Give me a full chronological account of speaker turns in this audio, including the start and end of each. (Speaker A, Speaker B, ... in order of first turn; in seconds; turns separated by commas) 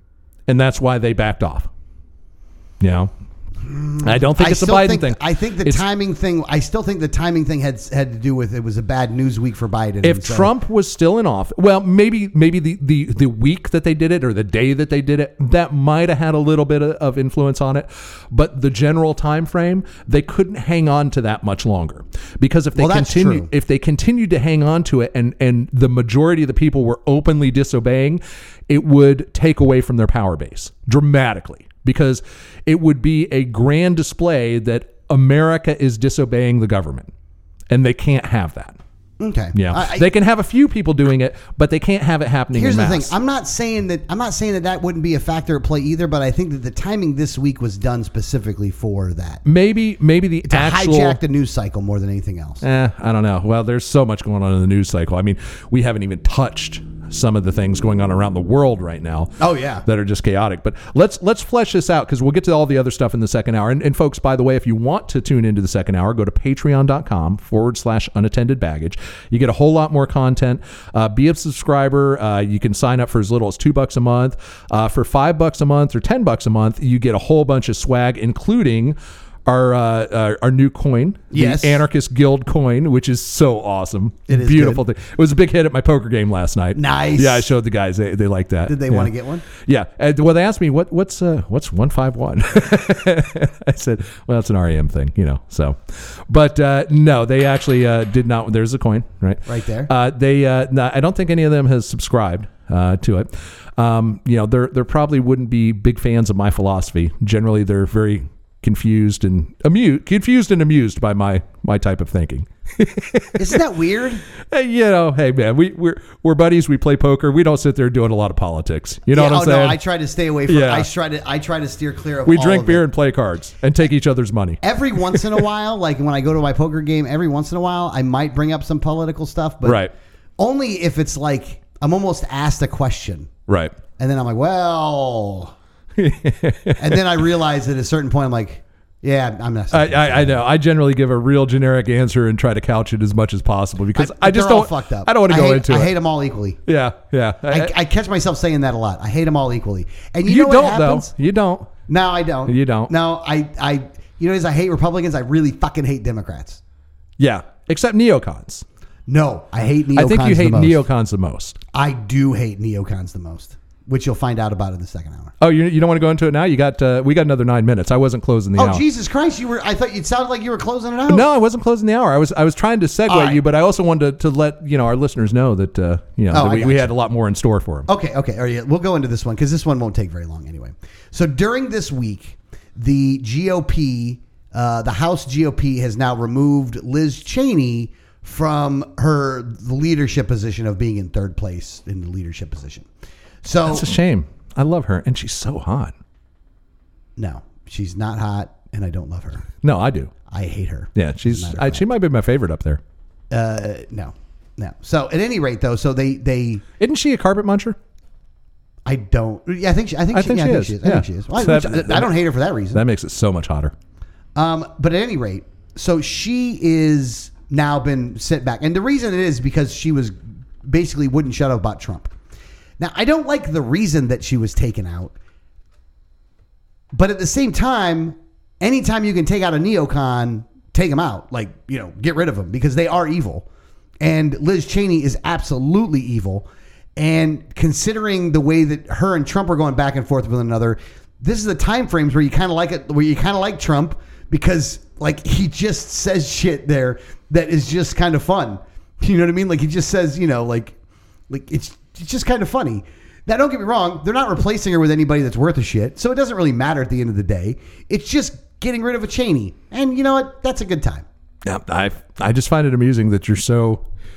Speaker A: 0.5-1.7, Speaker A: 2.8-3.1, Speaker B: 3.6-10.5, Speaker A: 4.0-5.8, Speaker A: 10.0-37.1, Speaker B: 22.8-23.5, Speaker A: 37.7-38.8, Speaker B: 39.2-40.1, Speaker A: 39.5-43.1, Speaker B: 42.5-49.4, Speaker A: 49.4-51.2, Speaker B: 50.5-52.6, Speaker A: 52.6-113.6, Speaker B: 59.4-59.8, Speaker B: 81.3-81.8, Speaker B: 84.3-84.8, Speaker B: 86.7-87.5, Speaker B: 88.7-89.4, Speaker B: 99.5-99.9, Speaker B: 113.3-114.2, Speaker A: 114.4-119.8, Speaker B: 119.1-122.8, Speaker A: 120.5-120.9, Speaker A: 122.2-125.4, Speaker B: 124.6-129.9, Speaker A: 129.6-129.9, Speaker B: 130.4-133.3, Speaker A: 133.5-133.8, Speaker B: 134.0-135.5, Speaker A: 136.0-137.0, Speaker B: 136.8-140.4, Speaker A: 139.7-145.9, Speaker B: 143.9-146.6, Speaker A: 146.7-147.7, Speaker B: 147.5-151.1, Speaker A: 150.2-151.7, Speaker B: 151.9-156.6, Speaker A: 152.5-152.9, Speaker A: 157.2-158.6, Speaker B: 159.1-160.8, Speaker A: 159.9-161.6, Speaker B: 161.7-165.3, Speaker A: 165.4-168.8, Speaker B: 168.6-171.3, Speaker A: 171.1-177.9, Speaker B: 173.1-173.4, Speaker B: 176.3-176.9, Speaker B: 177.9-192.9, Speaker B: 193.4-193.9, Speaker A: 193.7-195.9, Speaker B: 197.2-199.5, Speaker A: 199.6-200.1, Speaker B: 200.3-201.9, Speaker A: 200.9-202.8, Speaker B: 203.3-206.6, Speaker A: 206.8-207.8, Speaker B: 208.8-212.8, Speaker A: 210.1-212.1, Speaker A: 212.7-213.7, Speaker B: 214.3-222.1, Speaker B: 222.8-225.1, Speaker B: 226.9-233.4, Speaker B: 234.0-250.8, Speaker B: 251.3-261.0, Speaker A: 261.4-263.8